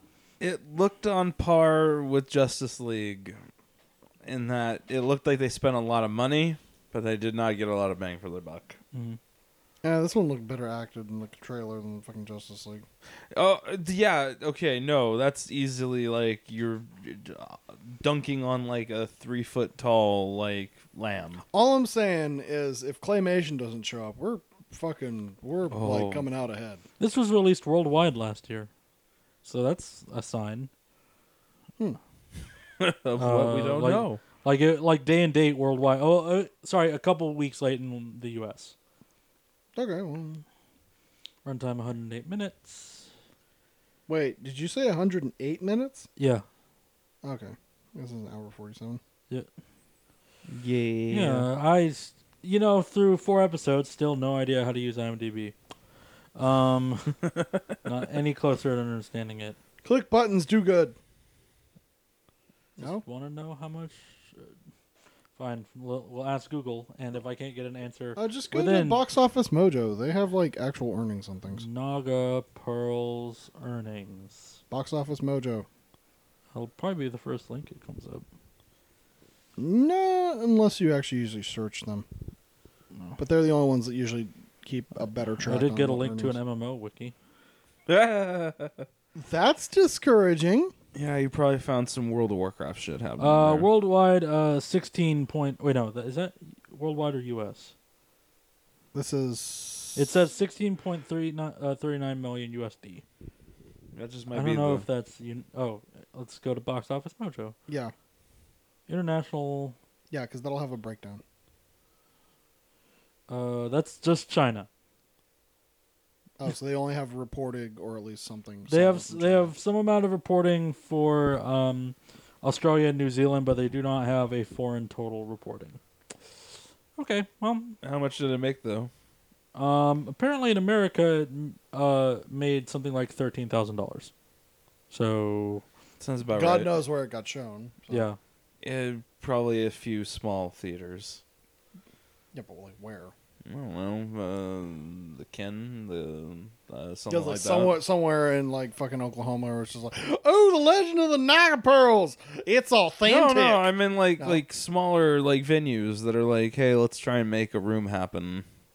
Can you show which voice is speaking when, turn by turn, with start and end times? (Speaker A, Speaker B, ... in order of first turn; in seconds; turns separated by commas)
Speaker A: 0.4-3.4, Speaker A: 4.2-8.8, Speaker B: 8.9-9.2, Speaker C: 9.8-12.9, Speaker A: 13.3-21.4, Speaker C: 21.5-26.8, Speaker A: 25.7-26.2, Speaker B: 27.0-28.7, Speaker B: 29.4-30.7, Speaker A: 32.8-34.2, Speaker B: 33.2-38.8, Speaker C: 39.8-40.4, Speaker B: 41.5-43.1, Speaker C: 44.1-46.1, Speaker B: 46.2-46.5, Speaker C: 47.2-49.0, Speaker A: 50.5-51.5, Speaker B: 51.1-55.5, Speaker B: 56.4-57.2, Speaker B: 57.8-59.6, Speaker C: 59.8-61.0, Speaker B: 62.8-64.0, Speaker B: 65.4-69.0, Speaker C: 68.2-71.7, Speaker B: 71.5-74.6, Speaker C: 74.7-75.7, Speaker B: 76.5-78.2, Speaker C: 79.6-82.1, Speaker C: 83.2-86.4, Speaker B: 85.4-87.2, Speaker A: 87.9-88.9, Speaker C: 89.2-90.7, Speaker A: 91.0-93.7, Speaker B: 93.2-97.7, Speaker C: 98.9-100.2, Speaker B: 100.0-103.0, Speaker A: 103.9-104.8, Speaker B: 104.3-107.5, Speaker C: 107.7-107.9, Speaker B: 108.9-109.8, Speaker C: 110.1-111.2, Speaker B: 113.3-114.7, Speaker C: 116.4-119.5, Speaker B: 118.7-125.8, Speaker B: 127.0-127.8, Speaker A: 127.8-128.9, Speaker B: 129.6-134.1, Speaker B: 134.9-135.7, Speaker A: 136.0-136.7, Speaker C: 136.3-138.1, Speaker B: 137.9-138.2, Speaker A: 138.6-141.2, Speaker C: 142.3-143.1, Speaker A: 143.5-147.8, Speaker C: 147.1-153.7, Speaker A: 153.1-158.4, Speaker C: 154.2-154.4